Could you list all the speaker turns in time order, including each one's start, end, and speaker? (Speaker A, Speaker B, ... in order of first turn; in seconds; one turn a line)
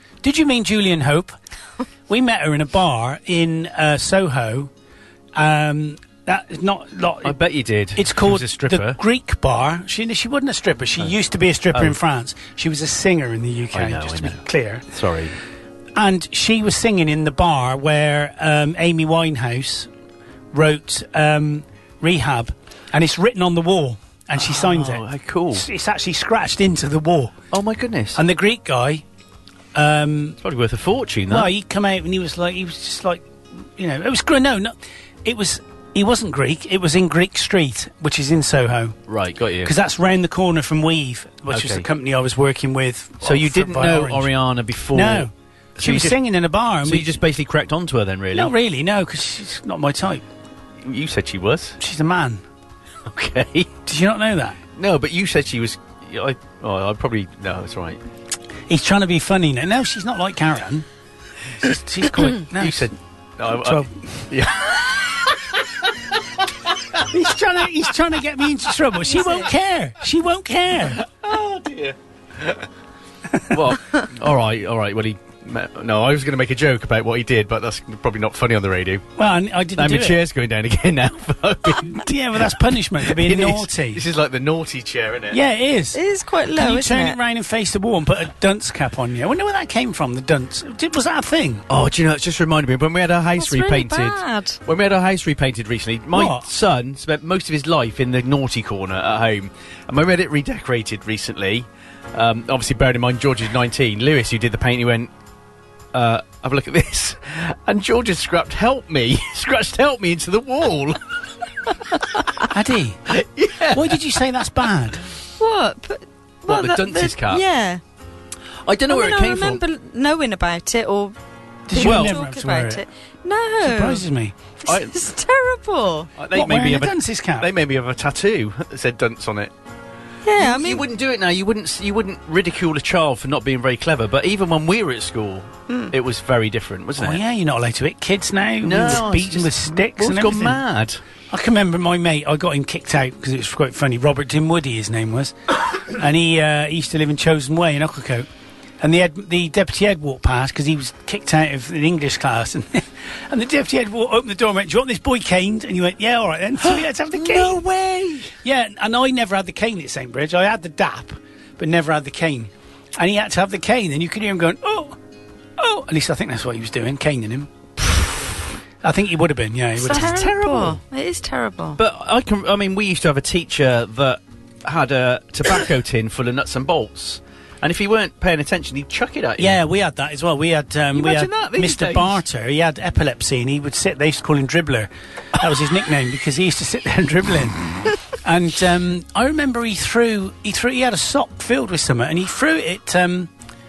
Speaker A: 0.2-1.3
Speaker A: 2.1-4.7
Speaker A: 5.3-7.4
Speaker B: 7.2-9.0
Speaker A: 7.9-14.8
Speaker B: 11.7-12.0
Speaker B: 13.7-15.3
Speaker A: 15.9-19.9
Speaker A: 20.5-27.3
Speaker B: 24.4-25.6
Speaker B: 27.5-28.2
Speaker A: 28.1-29.0
Speaker A: 29.7-30.4
Speaker B: 30.4-31.5
Speaker A: 31.3-39.0
Speaker B: 39.1-39.7
Speaker A: 39.6-44.3
Speaker B: 41.5-41.9
Speaker B: 43.2-46.2
Speaker A: 44.9-47.1
Speaker B: 46.8-48.5
Speaker A: 48.3-50.2
Speaker B: 50.8-51.8
Speaker A: 51.8-52.4
Speaker B: 53.0-53.7
Speaker A: 53.9-54.6
Speaker B: 54.8-58.0
Speaker A: 58.7-60.9
Speaker A: 61.6-62.9
Speaker B: 62.2-67.0
Speaker A: 63.5-64.2
Speaker A: 67.1-71.0
Speaker C: 69.1-69.5
Speaker B: 70.9-72.7
Speaker B: 73.5-79.0
Speaker A: 79.2-80.2
Speaker B: 79.8-85.4
Speaker A: 81.7-84.0
Speaker A: 85.3-86.0
Speaker C: 85.9-87.2
Speaker A: 86.5-91.6
Speaker B: 91.7-105.1
Speaker C: 93.4-94.6
Speaker A: 96.1-96.5
Speaker B: 105.9-112.4
Speaker A: 112.5-113.1
Speaker B: 113.1-114.0
Speaker A: 113.7-115.0
Speaker C: 115.4-117.8
Speaker B: 116.5-117.4
Speaker B: 118.6-119.6
Speaker C: 118.9-121.1
Speaker A: 121.7-122.8
Speaker C: 121.7-124.0
Speaker B: 121.8-122.2
Speaker A: 123.6-124.4
Speaker C: 124.6-126.1
Speaker B: 124.7-124.9
Speaker B: 126.2-129.5
Speaker A: 126.3-127.5
Speaker C: 130.2-130.8
Speaker B: 130.4-137.2
Speaker A: 137.0-140.6
Speaker B: 138.6-141.0
Speaker A: 141.3-148.3
Speaker A: 148.8-157.6
Speaker B: 156.7-158.3
Speaker A: 158.4-165.0
Speaker A: 165.6-167.5
Speaker B: 167.8-168.4
Speaker A: 168.8-170.2
Speaker C: 169.8-171.8
Speaker B: 169.8-170.8
Speaker B: 171.8-179.6
Speaker A: 179.4-193.3
Speaker B: 180.9-182.2